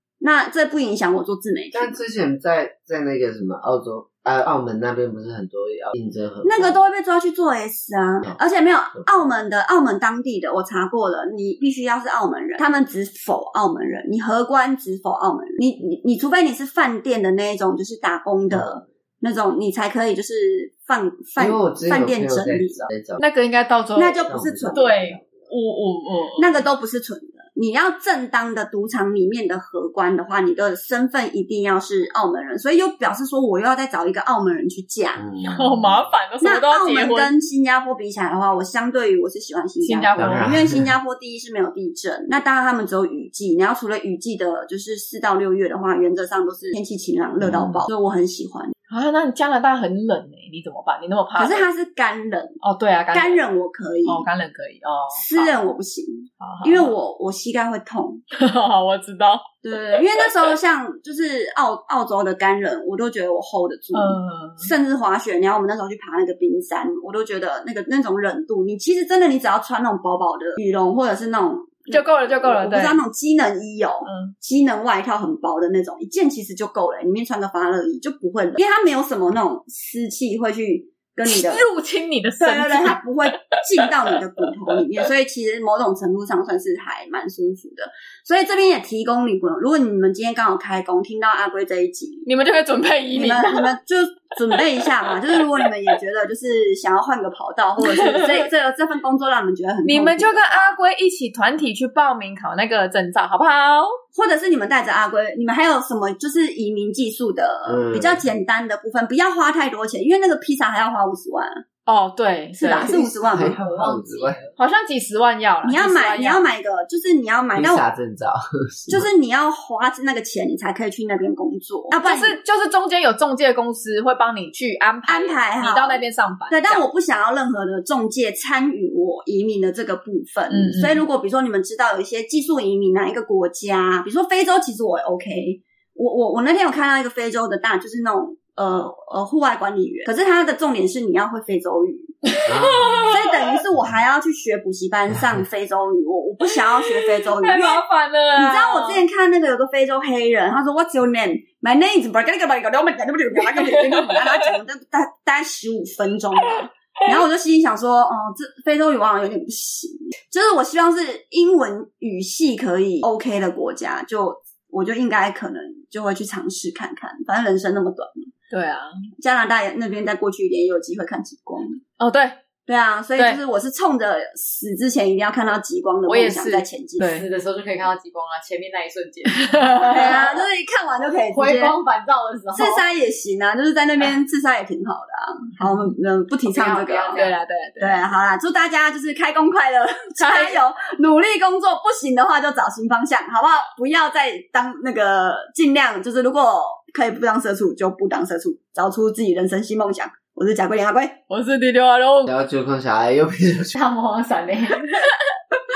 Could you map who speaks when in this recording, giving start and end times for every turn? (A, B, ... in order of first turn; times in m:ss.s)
0:00.2-0:02.0 A
0:01.7-0:06.8 B
0:06.4-0:22.9 A
0:21.4-0:23.2 B
0:23.2-0:26.5 C
0:24.0-0:25.0 A
0:24.3-0:25.2 B
0:26.4-0:35.3 A
0:35.2-0:36.0 B
0:35.4-0:37.3 C
0:36.4-0:48.7 A
0:39.8-0:40.5 C
0:40.2-0:40.9 B
0:47.4-0:47.8 B
0:48.9-0:51.6 C
0:51.4-0:52.6 A
0:52.6-0:53.4 C
0:53.1-0:54.2 A
0:54.1-0:55.5 C
0:55.1-0:58.2 A
0:56.4-0:56.9 C
0:58.3-1:00.5 C
0:59.6-1:21.6 A
1:03.9-1:04.7 C
1:11.9-1:13.0 C
1:14.0-1:14.3 C
1:21.2-1:23.0 C
1:22.4-1:32.3 A
1:32.2-1:33.7 C
1:33.1-1:40.7 A
1:37.8-1:38.5 C
1:39.8-1:44.0 C
1:44.1-1:51.6 A
1:47.7-1:48.3 B
1:51.8-1:52.9 C
1:52.6-1:53.6 A
1:52.8-1:54.4 B
1:52.8-1:54.5 D
1:54.6-1:56.4 C
1:55.6-1:57.8 A
1:57.6-1:59.0 B
1:58.9-2:02.4 A
2:01.9-2:06.8 C
2:05.1-2:22.4 A
2:10.5-2:11.0 C
2:22.3-2:23.4 C
2:22.4-2:23.2 B
2:23.0-2:27.8 A
2:27.0-2:29.0 C
2:28.4-2:48.3 A
2:33.4-2:34.4 C
2:36.5-2:37.2 C
2:48.5-2:49.0 C
2:49.2-2:51.8 A
2:52.0-2:52.4 C
2:52.7-2:57.1 A
2:56.1-2:57.3 C
2:57.1-3:00.3 D
2:59.3-3:00.2 C
2:59.8-3:01.8 A
3:01.3-3:02.8 D
3:02.5-3:21.2 A
3:06.5-3:07.4 D
3:07.2-3:08.0 C
3:10.2-3:10.6 C
3:21.3-3:22.3 C
3:22.3-3:23.8 B
3:23.7-3:25.0 D